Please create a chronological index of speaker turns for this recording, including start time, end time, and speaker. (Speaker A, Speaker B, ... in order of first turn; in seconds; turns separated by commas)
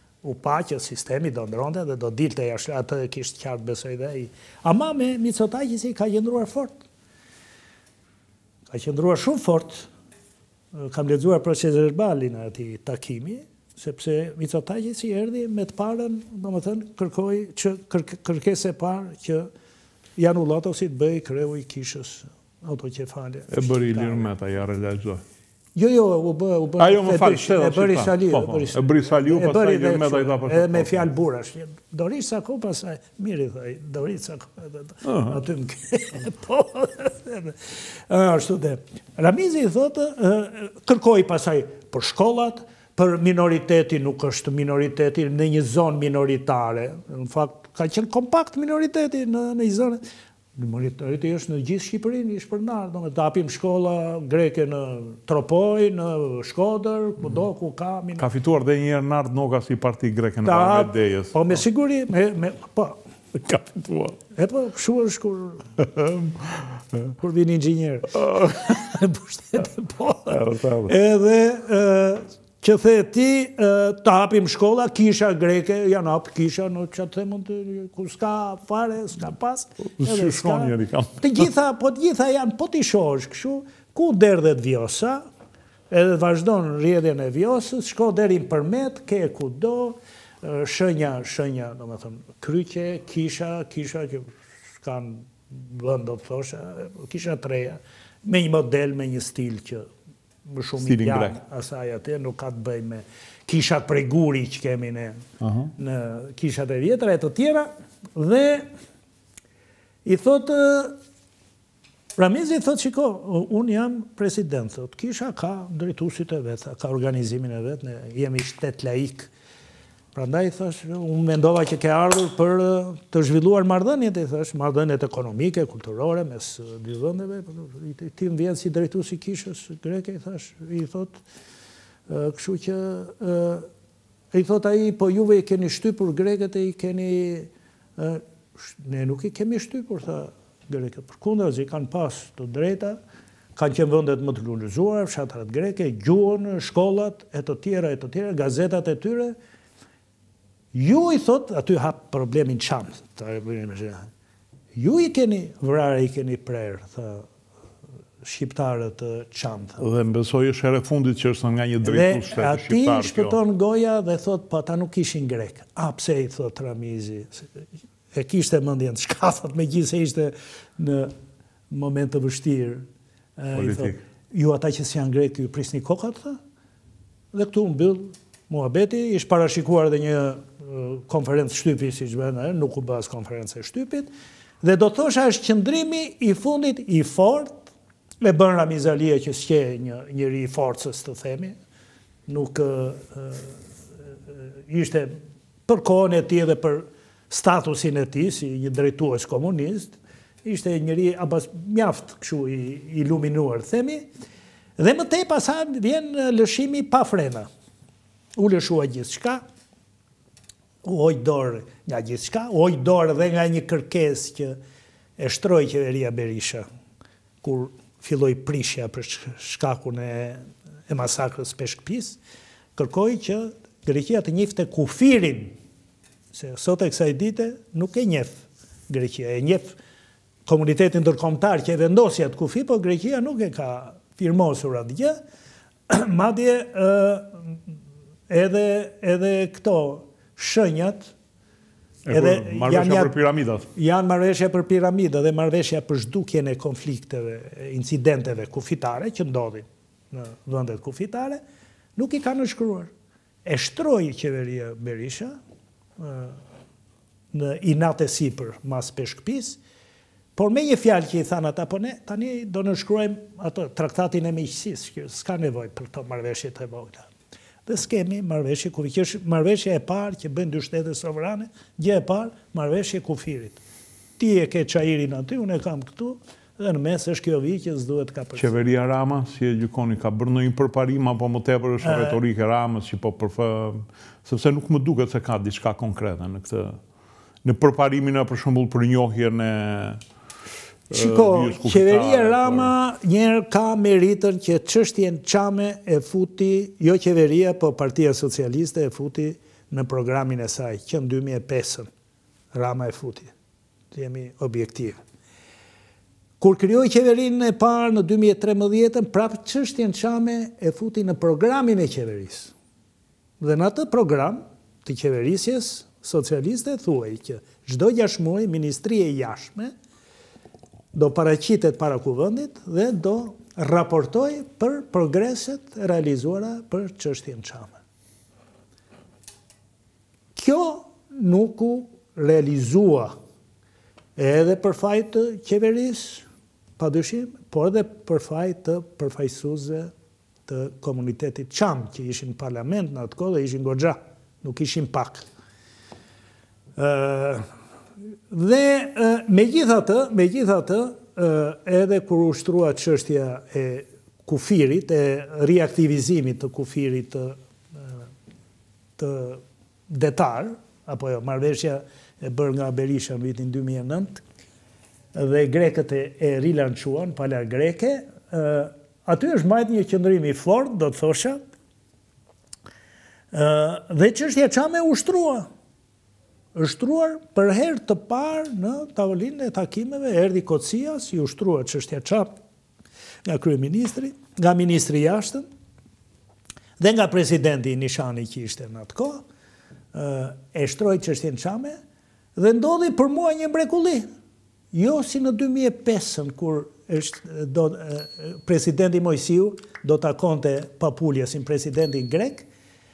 Speaker A: 0.2-6.8, Speaker A: 8.7-9.9, Speaker A: 10.7-19.5, Speaker A: 20.2-24.3, Speaker B: 23.5-25.2, Speaker A: 25.7-37.6, Speaker B: 26.8-31.1, Speaker B: 35.0-35.4, Speaker A: 38.1-50.0, Speaker A: 50.5-58.2, Speaker B: 58.2-61.6, Speaker A: 60.4-63.0, Speaker B: 63.3-64.2, Speaker A: 64.3-65.7, Speaker B: 65.8-67.0, Speaker A: 67.2-85.2, Speaker B: 68.3-68.5, Speaker B: 70.3-70.9, Speaker B: 80.0-81.5, Speaker A: 85.9-99.9, Speaker A: 100.5-108.7, Speaker B: 100.8-101.4, Speaker B: 105.4-105.7, Speaker A: 110.0-111.0, Speaker A: 112.2-119.3, Speaker A: 120.1-131.2, Speaker A: 132.1-133.7, Speaker A: 134.3-143.0, Speaker A: 143.6-149.3, Speaker A: 150.7-154.1, Speaker A: 154.7-157.3, Speaker A: 158.2-159.8, Speaker B: 159.8-163.4, Speaker A: 161.8-167.5, Speaker A: 168.1-171.1, Speaker A: 171.7-172.9, Speaker A: 173.4-176.4, Speaker B: 173.6-173.9, Speaker A: 177.3-184.1, Speaker A: 184.6-187.7, Speaker A: 188.2-191.6, Speaker A: 192.3-193.6, Speaker A: 194.3-204.1, Speaker A: 204.8-207.5, Speaker A: 208.4-209.4, Speaker A: 210.8-214.6, Speaker A: 215.2-216.6, Speaker A: 217.4-222.2, Speaker A: 222.8-225.6, Speaker A: 226.3-229.8, Speaker A: 230.4-235.1, Speaker A: 235.9-237.4, Speaker A: 238.3-241.1, Speaker B: 242.1-243.7, Speaker A: 242.1-243.2, Speaker A: 243.7-251.4, Speaker A: 251.9-252.9, Speaker A: 253.4-255.3, Speaker A: 256.0-256.4, Speaker A: 257.3-259.6, Speaker A: 260.3-267.1, Speaker A: 267.6-273.6, Speaker A: 274.2-278.6, Speaker B: 278.4-286.8, Speaker A: 281.8-282.2, Speaker B: 287.4-290.0, Speaker B: 290.9-292.7, Speaker A: 290.9-301.9, Speaker A: 302.5-303.3, Speaker A: 303.9-305.0, Speaker A: 306.4-312.5, Speaker A: 313.4-319.7, Speaker A: 320.9-327.7, Speaker A: 330.3-333.1, Speaker A: 334.2-336.2, Speaker A: 336.8-339.9, Speaker A: 340.5-345.2, Speaker A: 346.8-347.4, Speaker A: 348.3-357.9, Speaker A: 359.0-364.2, Speaker A: 365.1-371.4, Speaker A: 373.3-375.5, Speaker A: 376.5-382.3, Speaker A: 383.2-385.4, Speaker A: 386.8-389.2, Speaker A: 389.9-391.8, Speaker A: 392.4-394.1, Speaker A: 394.7-402.5